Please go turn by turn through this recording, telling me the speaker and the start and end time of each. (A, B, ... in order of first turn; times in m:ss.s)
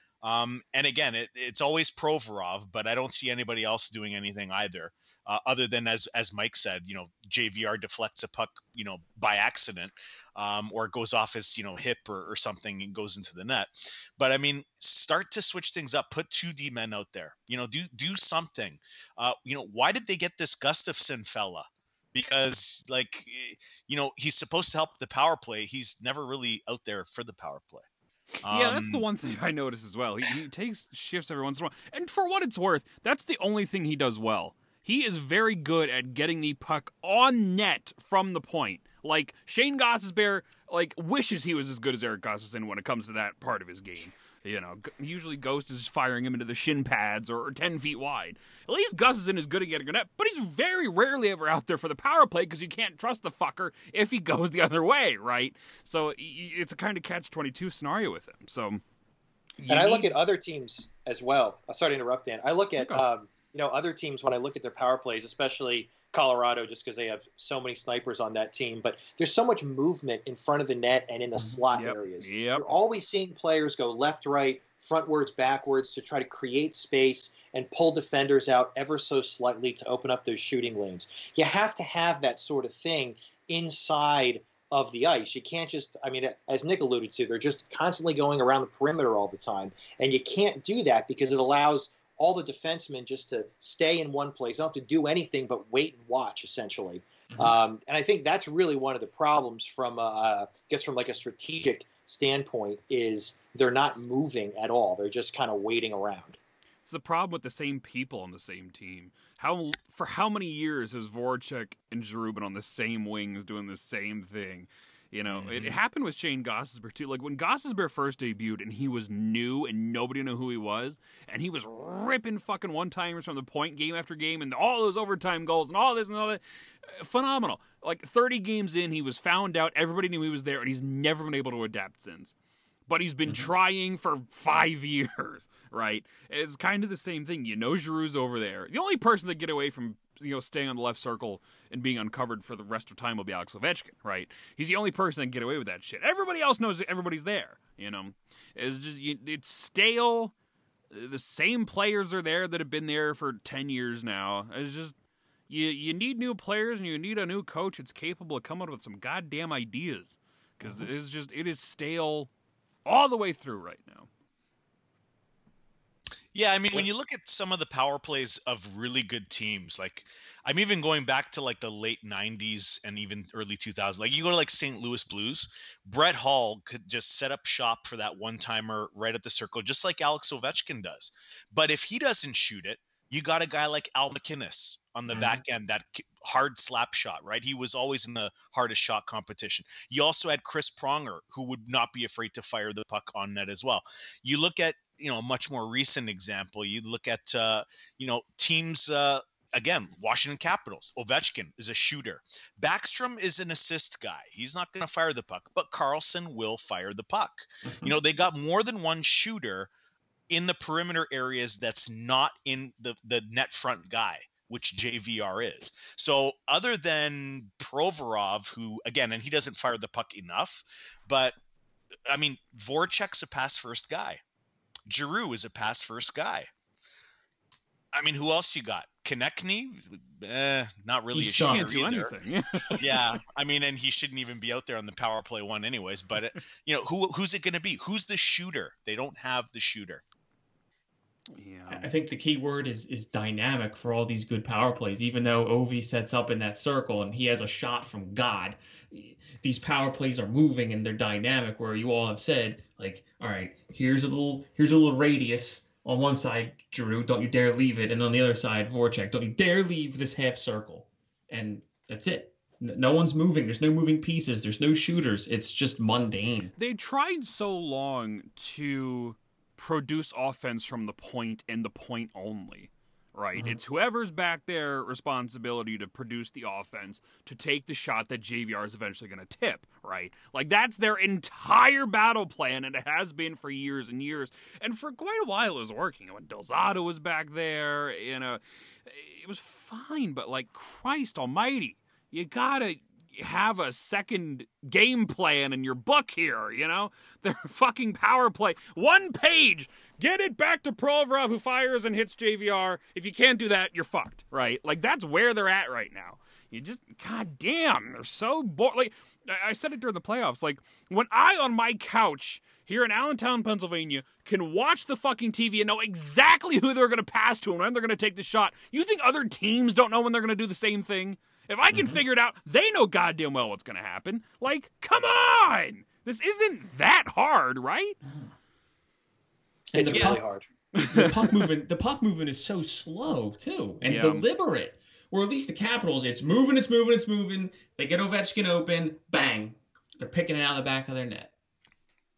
0:00.2-0:27.8 A
0:28.4-0:58.8 B
0:28.4-0:29.0 A
0:59.6-1:00.2 B
0:59.7-1:46.4 C
1:02.8-1:03.0 B
1:11.7-1:12.8 B
1:37.3-1:37.6 D
1:46.8-2:12.3 B
1:55.3-1:55.8 D
2:12.9-2:30.3 B
2:30.9-2:35.0 B
2:35.5-2:42.3 B
2:42.8-2:44.1 B
2:46.3-3:29.7 A
3:27.6-3:28.0 D
3:30.3-3:41.3 A
3:42.1-3:44.2 A
3:44.9-3:46.5 A
3:47.9-3:52.1 A
3:51.2-3:52.8 B
3:52.8-4:00.0 A
4:01.3-4:01.9 B
4:01.7-4:26.5 D
4:26.6-5:28.0 B
5:21.7-5:22.0 D
5:29.7-5:30.2 D
5:29.7-5:30.5 C
5:29.9-5:30.2 A
5:30.7-5:31.5 B
5:30.8-5:41.3 D
5:33.8-5:34.2 B